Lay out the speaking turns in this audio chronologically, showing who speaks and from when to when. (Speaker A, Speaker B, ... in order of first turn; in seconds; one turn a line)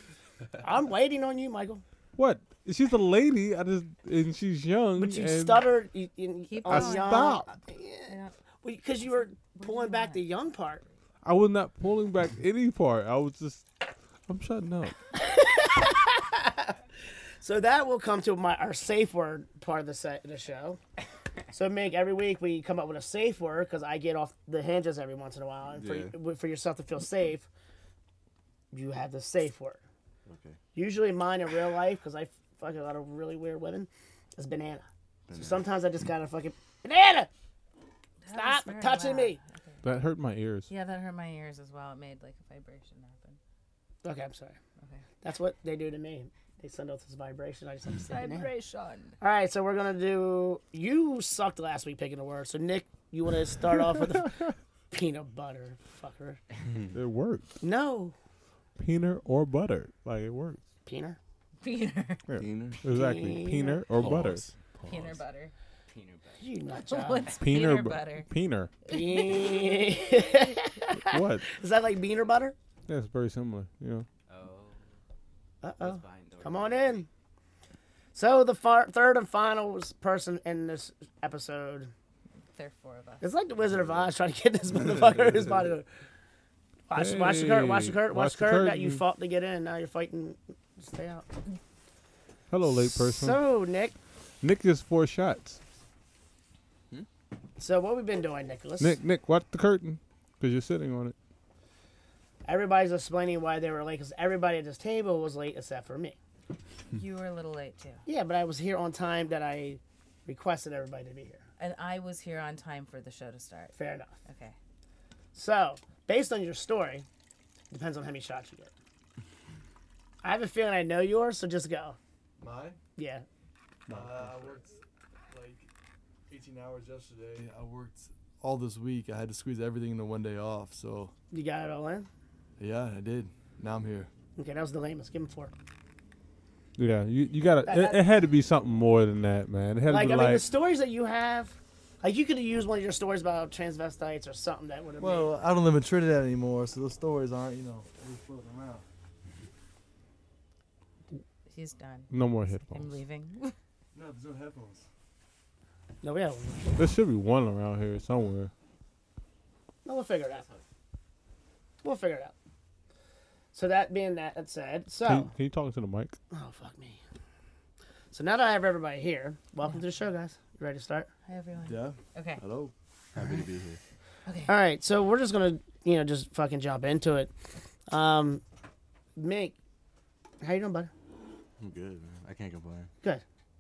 Speaker A: 0.6-1.8
Speaker B: 2.2-5.6
Speaker A: 5.0-10.8
Speaker C: 6.5-7.3
Speaker B: 6.7-7.5
Speaker C: 8.1-8.3
Speaker C: 9.1-10.3
Speaker B: 11.2-13.7
Speaker B: 14.3-15.0
Speaker A: 15.2-16.8
Speaker A: 17.4-20.8
Speaker A: 21.5-27.5
Speaker D: 25.7-26.1
Speaker A: 28.7-29.8
Speaker D: 30.3-30.6
Speaker A: 30.8-37.3
Speaker D: 35.3-35.6
Speaker C: 38.2-39.8
Speaker A: 38.3-39.4
Speaker B: 39.8-40.7
Speaker C: 40.7-43.4
Speaker A: 44.0-44.6
Speaker A: 45.2-48.5
Speaker C: 48.1-49.2
Speaker A: 49.2-54.4
Speaker A: 54.9-56.4
Speaker B: 56.9-57.5
Speaker A: 57.6-58.1
Speaker B: 58.8-60.6
Speaker A: 60.9-61.2
Speaker C: 61.6-62.2
Speaker B: 62.3-64.4
Speaker D: 62.4-62.9
Speaker A: 62.9-63.8
Speaker D: 63.9-65.2
Speaker C: 64.8-65.5
Speaker E: 65.9-66.4
Speaker A: 66.4-67.3
Speaker C: 66.8-68.3
Speaker B: 67.4-68.7
Speaker C: 68.9-70.5
Speaker A: 68.9-72.5
Speaker B: 70.9-71.5
Speaker B: 72.9-74.1
Speaker E: 74.3-75.0
Speaker A: 75.6-77.1
Speaker E: 75.8-77.1
Speaker A: 78.2-81.9
Speaker C: 82.5-83.2
Speaker A: 83.2-85.8
Speaker A: 86.9-91.3
Speaker B: 86.9-89.0
Speaker B: 92.5-93.4
Speaker A: 92.7-93.9
Speaker B: 94.4-95.6
Speaker A: 97.6-99.0
Speaker B: 98.8-101.2
Speaker A: 102.5-106.2
Speaker C: 106.9-108.0
Speaker A: 108.1-111.4
Speaker C: 111.6-114.6
Speaker A: 113.8-114.1
Speaker A: 115.3-117.1
Speaker A: 117.7-118.7
Speaker A: 120.2-122.0
Speaker F: 122.4-122.8
Speaker A: 123.0-123.2
Speaker B: 123.9-124.3
Speaker F: 123.9-124.8
Speaker F: 125.3-125.7
Speaker F: 126.3-131.1
Speaker A: 131.3-132.1
Speaker F: 132.6-134.1
Speaker A: 134.4-135.5
Speaker B: 136.8-140.4
Speaker A: 137.7-138.0
Speaker A: 139.9-145.3
Speaker F: 145.0-148.8
Speaker C: 151.5-152.1
Speaker B: 152.1-152.9
Speaker C: 152.7-153.6
Speaker F: 153.9-154.9
Speaker A: 156.0-156.8
Speaker B: 156.8-158.5
Speaker A: 159.8-160.5
Speaker A: 161.8-162.3
Speaker A: 163.5-165.3
Speaker B: 165.1-166.2
Speaker A: 166.3-167.0
Speaker A: 168.1-171.1
Speaker C: 171.3-172.4
Speaker F: 171.6-172.7
Speaker D: 173.2-173.8
Speaker C: 174.3-174.5
Speaker A: 174.5-177.3
Speaker A: 177.9-178.4
Speaker A: 179.2-179.6
Speaker A: 180.4-180.9
Speaker D: 181.6-182.9